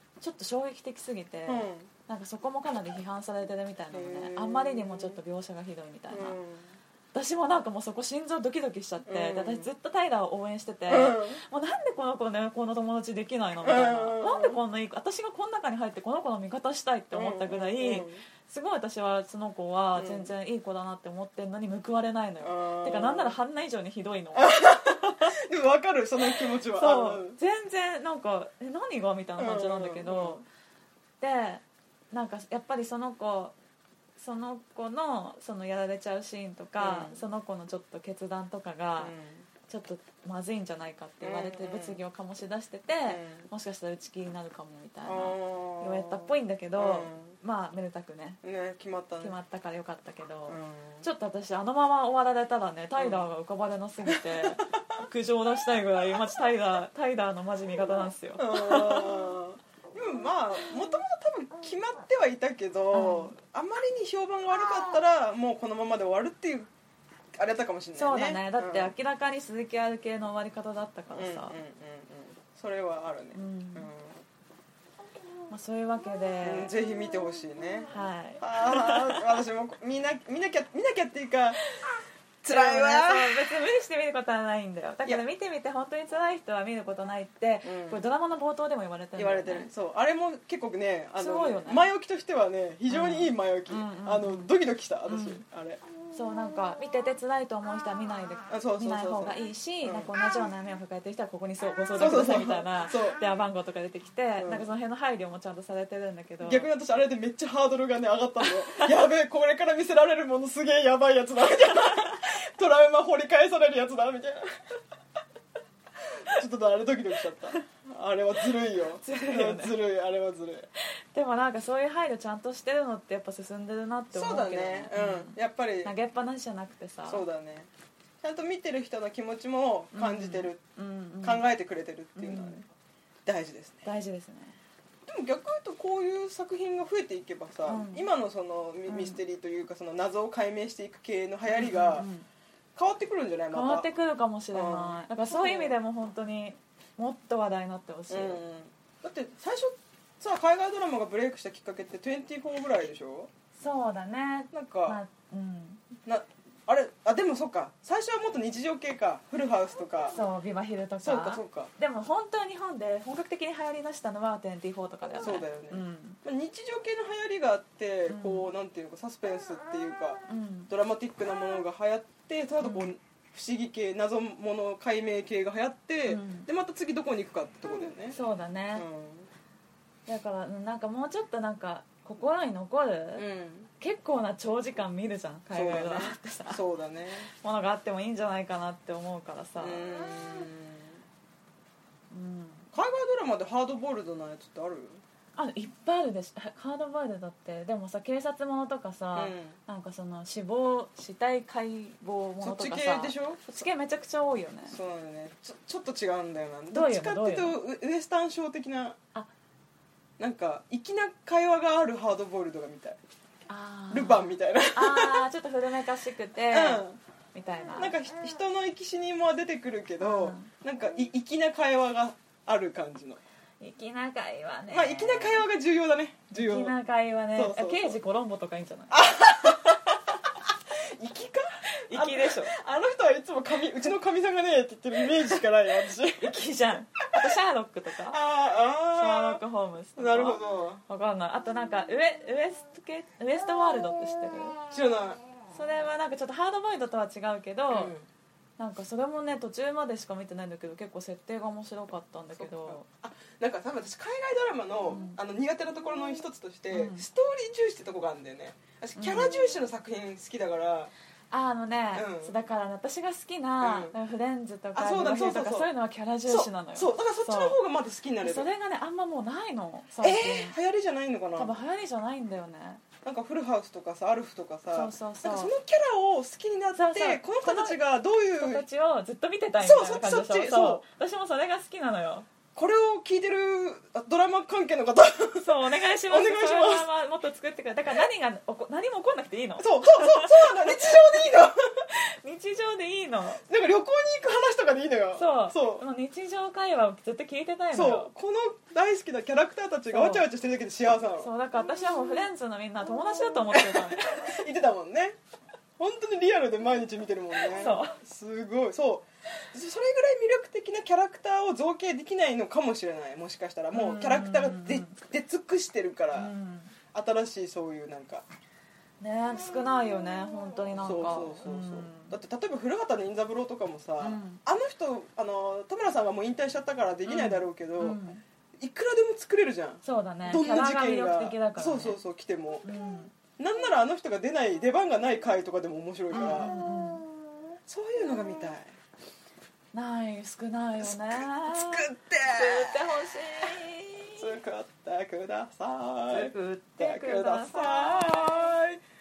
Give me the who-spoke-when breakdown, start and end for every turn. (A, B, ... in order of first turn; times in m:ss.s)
0:00.2-0:06.4 A
0:01.5-0:01.9 B
0:03.9-0:05.2 B
0:06.1-0:06.7 B
0:07.1-0:25.3 A
0:09.0-0:09.7 B
0:10.9-0:11.4 B
0:13.6-0:14.6 B
0:17.1-0:18.2 B
0:19.9-0:20.3 B
0:22.4-0:23.4 B
0:24.3-0:27.4 B
0:26.3-0:30.4 A
0:29.4-0:30.4 B
0:31.2-0:33.5 A
0:34.2-0:39.1 A
0:36.8-0:37.2 B
0:39.0-0:39.5 B
0:39.7-0:48.4 A
0:41.2-0:42.0 B
0:43.1-0:43.5 B
0:45.0-0:47.4 B
0:48.4-0:49.3 B
0:49.2-0:59.2 A
0:50.5-0:51.0 B
0:53.0-0:53.2 B
0:54.1-0:54.8 B
0:58.4-1:06.7 B
1:02.9-1:03.3 A
1:07.3-1:08.9 B
1:08.0-1:11.6 A
1:11.1-1:14.2 B
1:13.3-1:13.9 A
1:15.5-1:16.7 A
1:16.4-1:21.6 B
1:17.9-1:19.3 A
1:22.4-1:23.4 B
1:22.5-1:29.7 A
1:27.6-1:28.0 B
1:29.2-1:35.8 B
1:31.2-1:31.9 A
1:32.9-1:34.5 A
1:35.1-1:35.4 A
1:36.1-1:46.7 A
1:38.5-1:40.1 B
1:42.0-1:43.2 B
1:44.4-1:44.6 B
1:46.4-1:54.5 B
1:48.5-1:48.9 A
1:56.2-2:00.7 B
1:59.0-1:59.8 A
2:01.1-2:07.2 A
2:04.1-2:05.9 B
2:07.1-2:07.7 B
2:08.2-2:10.6 B
2:09.9-2:11.4 A
2:11.2-2:12.6 B
2:12.2-2:12.6 A
2:13.2-2:13.9 B
2:13.8-2:14.6 A
2:15.0-2:22.1 B
2:17.7-2:18.1 A
2:18.9-2:19.2 A
2:21.5-2:22.2 A
2:22.8-2:23.9 B
2:23.5-2:28.4 A
2:24.5-2:25.8 B
2:28.1-2:33.3 B
2:33.6-2:35.8 A
2:34.5-2:35.0 B
2:36.0-2:40.2 B
2:40.1-2:46.2 A
2:41.0-2:41.7 B
2:45.2-2:58.2 B
2:48.1-2:48.5 A
2:50.3-2:50.7 A
2:52.6-2:52.9 A
2:56.0-2:56.5 A
2:58.1-2:58.8 A
2:58.7-2:59.3 B
3:00.1-3:03.2 A
3:03.2-3:03.7 B
3:03.8-3:06.6 A
3:05.5-3:07.3 B
3:07.3-3:09.8 A
3:09.6-3:11.0 B
3:12.1-3:12.7 A
3:12.7-3:15.0 B
3:15.4-3:24.8 A
3:19.1-3:19.6 B
3:22.4-3:23.7 B
3:24.7-3:29.0 B
3:26.7-3:27.6 A
3:30.2-3:33.0 B
3:33.5-3:36.8 A
3:33.9-3:35.2 B
3:36.5-3:37.0 B
3:37.3-3:37.9 A
3:37.7-3:43.2 B
3:40.0-3:40.5 A
3:43.6-3:45.4 A
3:44.7-3:46.7 B
3:46.3-3:49.9 A
3:47.3-3:48.0 B
3:48.9-3:56.4 B
3:51.8-3:52.5 A
3:56.2-3:58.2 A
3:58.1-3:59.4 B
3:58.9-4:04.6 A
4:00.0-4:00.8 B
4:04.7-4:05.2 B
4:05.5-4:07.9 A
4:07.7-4:08.0 B
4:08.6-4:12.8 A
4:12.3-4:20.9 B
4:14.9-4:15.2 A
4:16.7-4:17.0 A
4:19.0-4:19.5 A
4:21.3-4:27.6 A
4:21.9-4:22.3 B
4:23.6-4:23.9 B
4:24.7-4:25.7 B
4:26.3-4:28.5 B
4:28.2-4:30.6 A
4:30.0-4:31.5 B
4:31.4-4:32.8 A
4:33.0-4:38.6 B
4:34.7-4:35.5 A
4:36.7-4:37.8 A
4:38.4-4:42.3 A
4:39.6-4:40.8 B
4:42.5-4:46.9 B
4:45.3-4:51.2 A
4:49.6-4:51.6 B
4:51.9-4:53.4 A
4:53.5-4:55.8 B
4:55.1-4:58.1 A
4:57.7-5:01.3 B
4:59.9-5:00.3 A
5:01.2-5:04.4 A
5:03.5-5:05.2 B
5:05.8-5:16.3 B
5:07.4-5:08.0 A
5:13.7-5:15.0 A
5:16.1-5:16.7 A
5:16.9-5:18.2 B
5:19.0-5:22.2 A
5:20.8-5:28.0 B
5:24.0-5:24.4 A
5:27.1-5:28.2 A
5:28.6-5:32.6 B
5:29.8-5:32.0 A
5:32.6-5:33.2 A
5:33.4-5:36.5 B
5:36.1-5:37.1 A
5:37.7-5:38.8 B
5:39.7-5:44.3 A
5:40.8-5:42.8 B
5:44.2-5:48.8 B
5:46.1-5:48.4 A